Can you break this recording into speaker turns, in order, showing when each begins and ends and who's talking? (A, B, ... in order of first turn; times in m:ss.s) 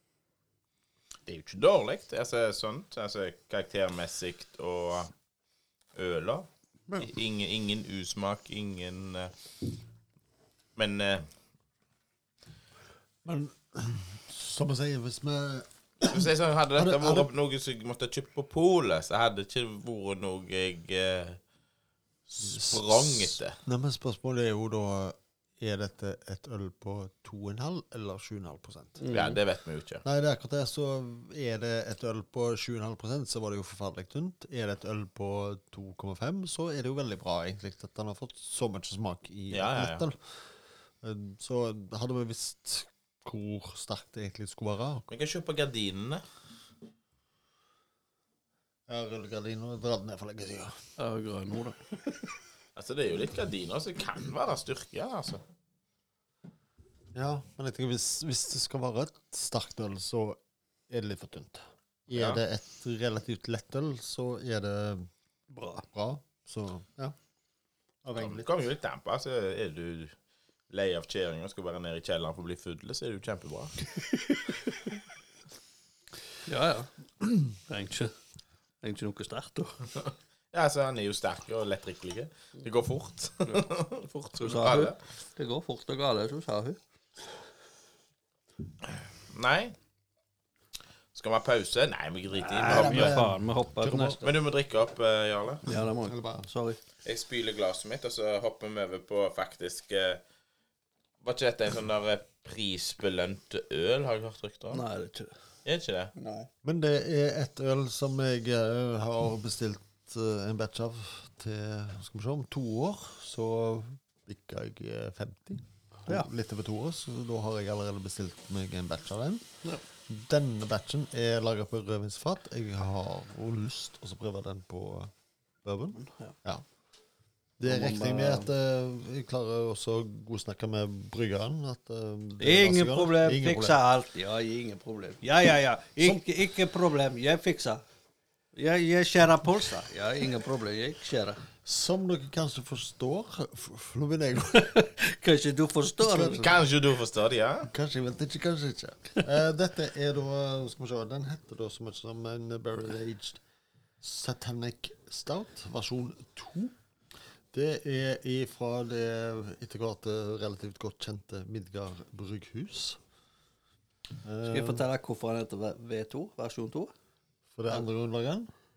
0:01.2-0:05.1 A
0:05.9-0:09.3 A
0:10.8-0:11.3 A
0:13.2-0:17.3 B
0:16.0-0:21.4 A
0:22.3-0:23.6 A
0:22.4-0:29.0 B
0:29.0-0:29.4 C
0:29.1-0:30.0 A
0:30.0-0:40.5 B
0:39.5-0:40.0 A
0:41.0-0:45.1 B
0:45.1-0:46.2 A
0:48.9-0:50.8 B
0:51.0-0:51.9 C
0:52.8-0:55.4 A
0:57.1-1:05.1 B
1:02.1-1:02.4 A
1:05.5-1:05.9 C
1:05.9-1:07.2 B
1:08.0-1:08.5 B
1:08.2-1:10.2 A
1:10.7-1:13.8 A
1:16.4-1:16.9 C
1:17.4-1:18.1 C
1:18.8-1:19.9 C
1:20.5-1:25.0 A
1:24.4-1:26.8 C
1:28.9-1:29.8 A
1:31.1-1:33.2 A
1:32.4-1:34.3 C
1:32.6-1:34.2 B
1:34.2-1:35.6 A
1:35.6-1:36.8 C
1:36.0-1:36.5 B
1:37.0-1:40.2 A
1:41.2-1:44.8 A
1:44.7-1:45.3 C
1:45.6-1:46.1 A
1:46.2-1:46.5 C
1:46.6-2:05.1 B
2:05.6-2:06.6 B
2:05.9-2:06.3 C
2:07.6-2:13.8 B
2:07.6-2:08.5 C
2:12.4-2:17.8 C
2:18.5-2:21.4 C
2:21.6-2:24.8 B
2:24.6-2:26.5 C
2:26.0-2:26.5 B
2:26.3-2:27.7 A
2:27.6-2:33.4 B
2:34.0-2:36.7 B
2:37.5-2:43.0 B
2:44.2-2:44.8 B
2:44.4-2:46.9 C
2:47.5-2:48.5 B